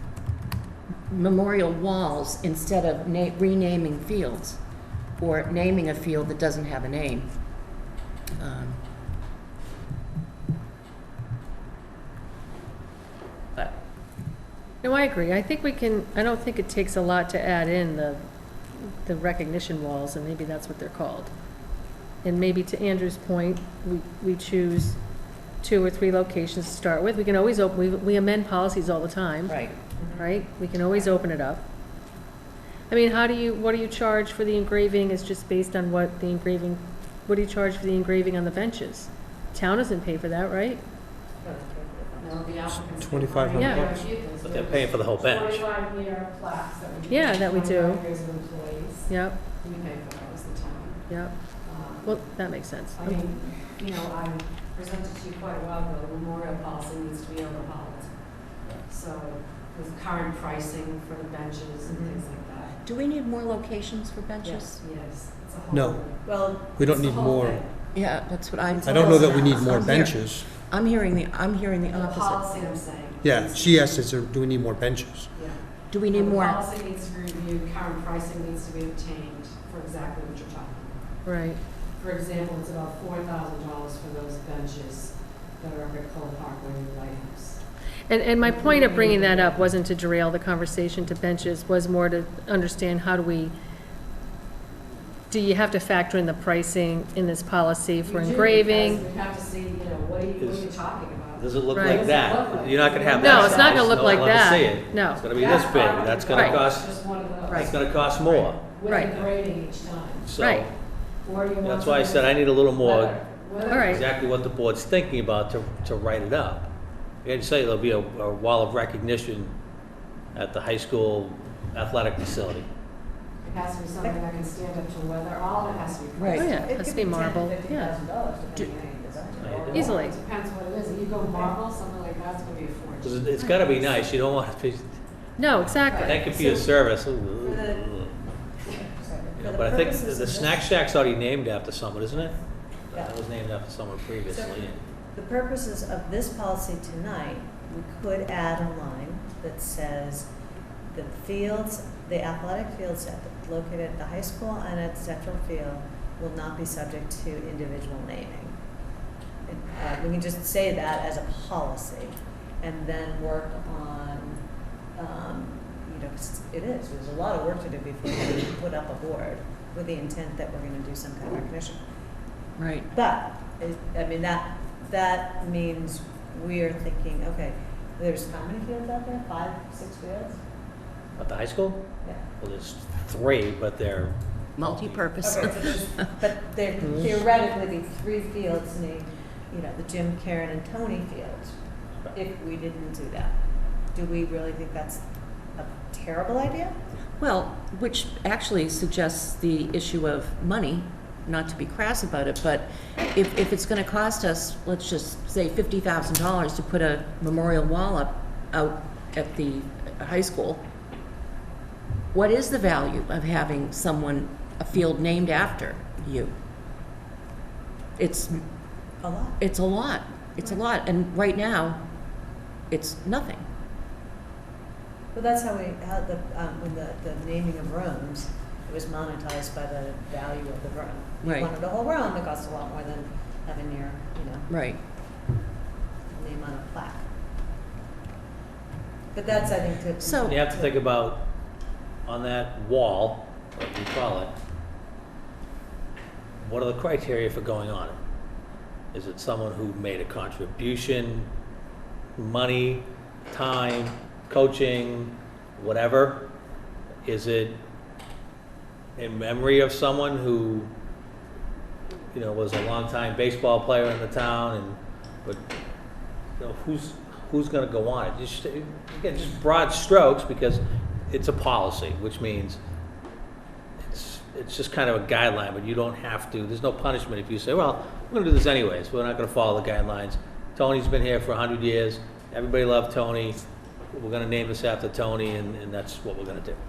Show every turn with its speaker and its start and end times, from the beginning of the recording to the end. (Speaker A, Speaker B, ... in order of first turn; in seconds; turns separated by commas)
Speaker A: 1.1-4.6, Speaker A: 5.2-7.5, Speaker A: 8.4-8.8, Speaker B: 14.8-18.2, Speaker B: 18.8-21.3, Speaker B: 22.2-25.0, Speaker B: 25.6-29.6, Speaker A: 29.5-29.8, Speaker C: 30.0-30.3, Speaker B: 30.2-31.6, Speaker B: 32.9-40.8, Speaker C: 41.4-42.4, Speaker D: 42.2-51.0, Speaker E: 43.0-44.1, Speaker B: 43.6-43.9, Speaker F: 44.4-45.7, Speaker B: 47.1-48.0, Speaker B: 49.1-49.5, Speaker B: 51.1-51.4, Speaker D: 51.6-52.2, Speaker B: 52.0-53.3, Speaker D: 53.0-58.1, Speaker D: 58.7-62.8, Speaker C: 61.9-62.2, Speaker A: 62.7-64.8, Speaker C: 64.4-64.7, Speaker D: 64.8-66.3, Speaker E: 65.7-66.0, Speaker C: 66.2-66.9, Speaker E: 66.8-67.6, Speaker D: 66.8-67.5, Speaker A: 67.9-72.7, Speaker C: 68.7-69.7, Speaker E: 68.8-70.5, Speaker D: 71.9-74.1, Speaker E: 73.2-75.3, Speaker D: 75.3-81.0, Speaker A: 75.9-76.6, Speaker B: 81.2-81.6, Speaker D: 82.0-87.6, Speaker B: 88.1-93.5, Speaker D: 88.5-89.6, Speaker B: 95.3-99.0, Speaker D: 98.0-104.3, Speaker F: 100.4-100.8, Speaker F: 101.4-107.0, Speaker B: 101.7-102.1, Speaker B: 103.2-105.3, Speaker D: 105.3-110.4, Speaker B: 106.3-106.6, Speaker F: 107.5-109.3, Speaker B: 108.9-109.2, Speaker F: 110.2-110.7, Speaker B: 110.4-110.7, Speaker D: 111.2-114.0, Speaker F: 111.6-113.2, Speaker B: 113.7-114.0, Speaker F: 113.8-116.7, Speaker F: 117.2-119.5, Speaker F: 120.3-122.7, Speaker D: 123.4-126.5, Speaker A: 126.2-126.5, Speaker B: 126.3-128.0, Speaker C: 126.4-130.1, Speaker F: 129.4-129.9, Speaker D: 129.7-133.8, Speaker B: 129.8-130.2, Speaker F: 133.0-135.0, Speaker B: 135.4-136.7, Speaker D: 135.9-136.2, Speaker F: 136.0-138.2, Speaker C: 137.4-137.9, Speaker C: 138.7-140.7, Speaker F: 139.4-142.3, Speaker F: 142.9-144.8, Speaker C: 144.3-150.3, Speaker C: 150.9-158.6, Speaker C: 159.4-164.4, Speaker C: 165.0-171.8, Speaker A: 172.6-172.9, Speaker C: 172.9-180.4, Speaker F: 181.2-181.8, Speaker F: 182.4-185.3, Speaker A: 184.6-185.8, Speaker C: 185.2-191.5, Speaker C: 192.1-193.4, Speaker C: 193.9-195.0, Speaker C: 195.6-196.8, Speaker A: 197.2-210.7, Speaker A: 212.1-216.3, Speaker A: 218.0-218.4, Speaker C: 219.0-219.4, Speaker A: 219.4-221.8, Speaker A: 222.7-223.5, Speaker C: 225.1-234.5, Speaker A: 231.2-231.5, Speaker A: 234.5-234.8, Speaker C: 236.1-237.1, Speaker C: 239.1-240.7, Speaker A: 240.0-240.4, Speaker F: 240.3-241.3, Speaker F: 242.1-244.3, Speaker F: 246.4-248.0, Speaker F: 248.9-251.3, Speaker F: 252.2-256.3, Speaker F: 257.1-257.6, Speaker F: 259.0-260.7, Speaker F: 262.1-265.4, Speaker F: 266.4-272.6, Speaker F: 273.8-286.6